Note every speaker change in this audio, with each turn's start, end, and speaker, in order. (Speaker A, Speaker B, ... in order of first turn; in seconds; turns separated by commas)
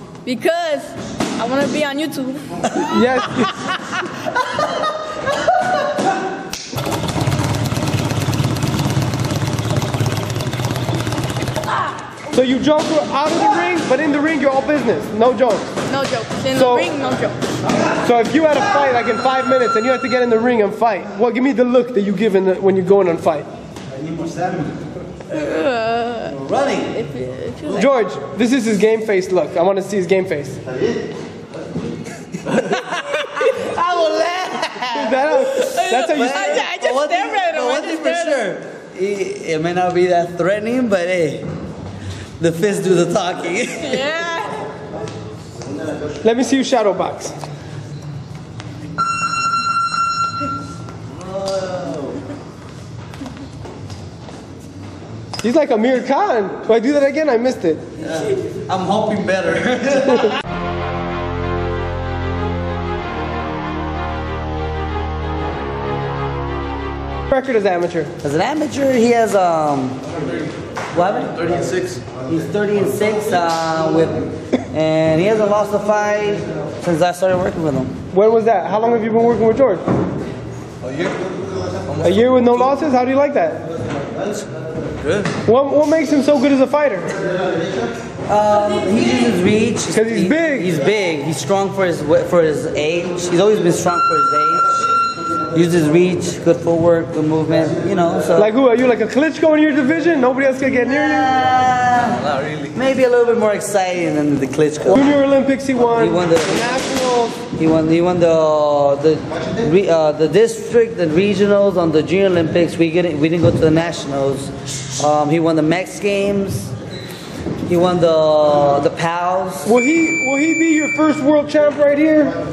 Speaker A: 0.2-2.5, Speaker B: 2.8-3.7, Speaker B: 12.3-15.7, Speaker A: 15.9-17.4, Speaker B: 16.5-16.9, Speaker B: 18.0-23.5, Speaker A: 25.3-28.0, Speaker C: 26.4-26.9, Speaker B: 27.7-30.6, Speaker C: 32.5-41.5, Speaker B: 34.9-36.7, Speaker A: 35.6-38.5, Speaker C: 42.4-44.1, Speaker A: 43.8-44.6, Speaker B: 46.2-47.4, Speaker C: 51.1-52.2, Speaker B: 55.4-57.9, Speaker C: 58.0-60.4, Speaker B: 67.3-68.1, Speaker C: 68.2-70.0, Speaker C: 70.9-71.4, Speaker D: 71.3-72.0, Speaker C: 72.2-78.0, Speaker B: 78.1-79.8, Speaker D: 80.8-81.3, Speaker D: 81.9-82.2, Speaker B: 82.0-83.6, Speaker D: 85.0-85.3, Speaker B: 85.5-87.2, Speaker C: 88.3-94.9, Speaker A: 88.8-89.3, Speaker B: 89.9-90.8, Speaker C: 95.5-98.5, Speaker B: 98.4-101.4, Speaker C: 100.9-105.0, Speaker D: 102.1-102.8, Speaker B: 104.9-107.4, Speaker C: 105.9-106.9, Speaker C: 107.5-116.7, Speaker C: 117.7-119.7, Speaker B: 119.7-122.3